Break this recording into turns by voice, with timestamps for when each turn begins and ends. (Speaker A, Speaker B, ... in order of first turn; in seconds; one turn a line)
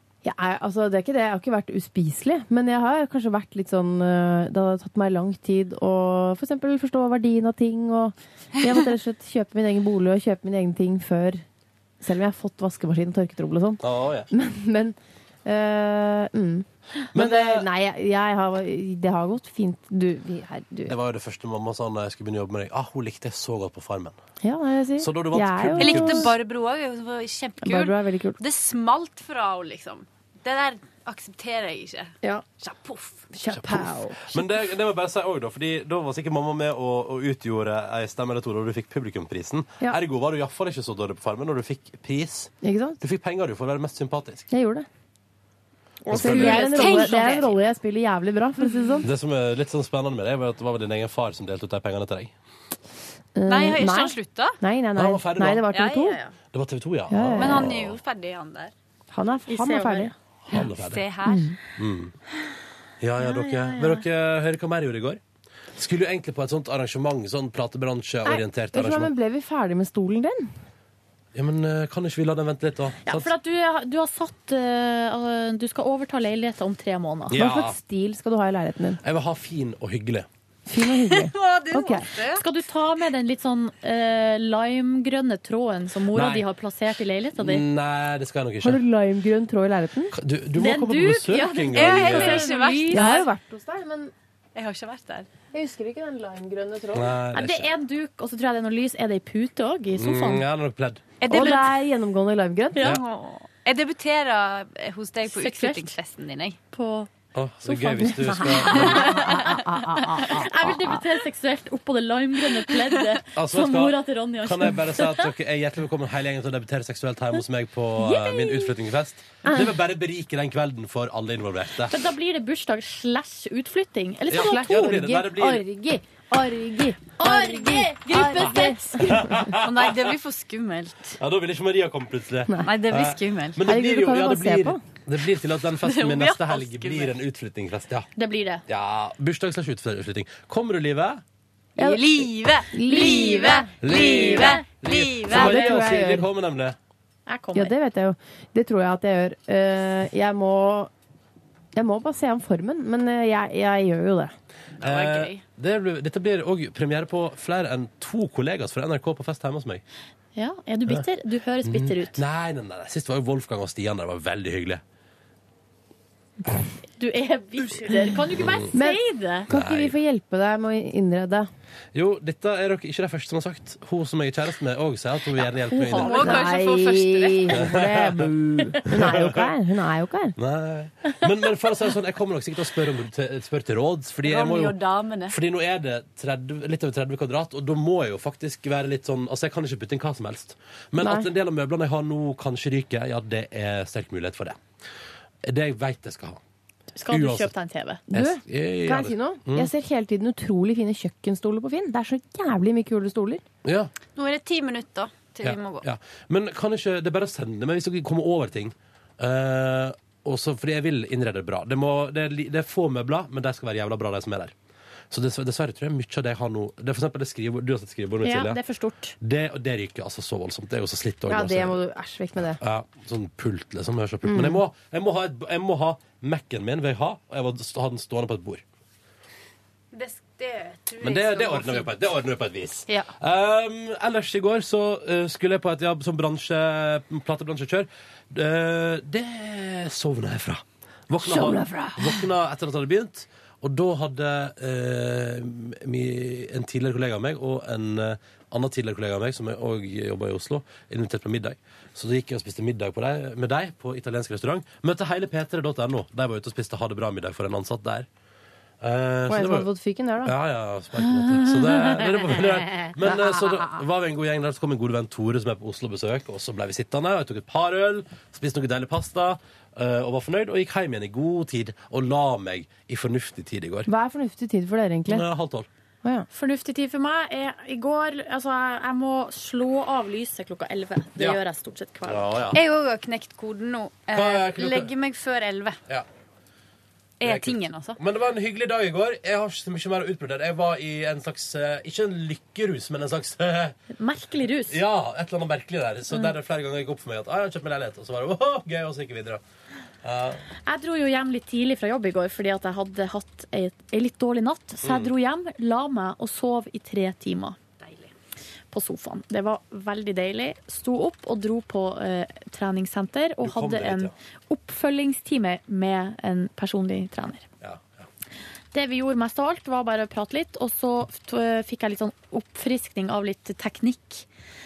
Speaker A: 0.2-11.4
Speaker A: 12.0-20.9
Speaker B: 13.8-14.3
Speaker B: 17.1-17.7
Speaker B: 20.9-24.2
Speaker A: 24.4-26.3
Speaker B: 25.0-26.3
Speaker C: 25.8-33.3
Speaker A: 27.6-28.4
Speaker A: 33.3-34.4
Speaker B: 33.5-44.5
Speaker A: 42.6-43.0
Speaker A: 44.5-44.9
Speaker D: 46.1-47.4
Speaker A: 46.1-49.1
Speaker B: 46.1-46.6
Speaker C: 46.3-47.6
Speaker B: 49.0-52.3
Speaker A: 53.4-56.2
Speaker C: 53.5-54.6
Speaker B: 55.0-55.7
Speaker C: 55.7-56.4
Speaker B: 56.5-58.0
Speaker A: 57.1-57.8
Speaker C: 57.3-58.7
Speaker A: 59.1-60.1
Speaker D: 59.5-60.1
Speaker B: 60.5-61.0
Speaker C: 60.5-61.6
Speaker A: 61.2-61.6
Speaker B: 61.8-62.1
Speaker B: 63.0-65.2
Speaker D: 63.3-64.0
Speaker B: 65.8-69.1
Speaker A: 68.2-70.5
Speaker B: 71.3-73.3
Speaker D: 73.1-77.4
Speaker B: 77.3-77.8
Speaker A: 77.3-79.0
Speaker B: 79.0-80.3
Speaker A: 80.7-82.1
Speaker C: 80.8-82.5
Speaker D: 82.4-87.6
Speaker B: 86.1-86.5
Speaker B: 87.4-88.8
Speaker A: 88.6-90.2
Speaker B: 90.1-92.4
Speaker D: 90.6-93.1
Speaker C: 91.7-93.3
Speaker A: 92.9-94.1
Speaker C: 94.5-95.3
Speaker A: 95.5-97.1
Speaker B: 96.9-97.7
Speaker D: 97.3-100.5
Speaker B: 100.0-101.0
Speaker C: 101.2-101.8
Speaker A: 101.3-102.9
Speaker C: 102.8-106.6
Speaker D: 105.3-106.0
Speaker D: 106.7-107.1
Speaker B: 107.3-109.2
Speaker D: 107.6-109.5
Speaker A: 108.1-111.0
Speaker C: 109.2-110.4
Speaker D: 110.2-115.3
Speaker B: 113.3-122.0
Speaker D: 118.0-118.7
Speaker A: 119.4-119.8
Speaker D: 121.8-125.1
Speaker B: 124.3-125.7
Speaker A: 124.3-129.6
Speaker D: 127.2-129.0
Speaker C: 127.2-129.0
Speaker B: 129.0-130.1
Speaker C: 129.5-131.2
Speaker B: 131.2-138.1
Speaker C: 132.6-133.6
Speaker A: 133.6-134.8
Speaker C: 135.6-137.2
Speaker D: 138.2-138.6
Speaker B: 138.7-141.2
Speaker C: 141.8-145.9
Speaker A: 141.8-143.7
Speaker D: 142.9-144.6
Speaker B: 143.8-146.8
Speaker A: 145.3-146.3
Speaker D: 147.3-147.7
Speaker A: 147.6-150.9
Speaker A: 151.8-154.3
Speaker C: 154.8-155.4
Speaker B: 154.8-159.8
Speaker D: 160.3-162.2
Speaker B: 161.6-164.8
Speaker D: 167.0-169.5
Speaker B: 168.4-168.7
Speaker A: 168.8-171.5
Speaker B: 169.5-169.9
Speaker B: 171.9-176.2
Speaker D: 175.7-176.5
Speaker C: 175.9-177.7
Speaker A: 176.1-180.4
Speaker B: 177.5-178.3
Speaker B: 178.9-179.5
Speaker B: 180.4-184.8
Speaker C: 184.2-185.4
Speaker B: 185.3-194.6
Speaker A: 191.0-191.3
Speaker B: 195.4-196.4
Speaker D: 197.0-198.0
Speaker B: 197.1-197.5
Speaker A: 198.1-203.4
Speaker B: 198.1-199.7
Speaker B: 203.6-203.9
Speaker C: 204.2-205.9
Speaker B: 205.4-214.5
Speaker B: 215.1-218.6
Speaker D: 218.2-219.2
Speaker B: 219.2-221.8
Speaker A: 221.3-222.6
Speaker B: 222.6-228.6
Speaker A: 224.3-224.6
Speaker C: 229.9-231.9
Speaker B: 231.0-258.1
Speaker A: 241.3-242.0
Speaker B: 258.8-259.7
Speaker A: 259.3-260.4
Speaker B: 260.2-273.9
Speaker A: 263.1-263.7
Speaker A: 273.9-275.3
Speaker B: 275.1-275.7
Speaker D: 276.3-282.3
Speaker B: 282.1-282.6
Speaker C: 282.5-285.8
Speaker B: 284.1-284.9
Speaker C: 287.2-288.0
Speaker B: 287.2-293.8
Speaker D: 294.0-294.8
Speaker B: 294.7-299.4
Speaker B: 300.0-300.5
Speaker D: 300.7-307.6
Speaker B: 304.8-305.1
Speaker D: 308.7-317.5
Speaker B: 313.4-314.1
Speaker B: 317.6-318.1
Speaker D: 318.7-324.3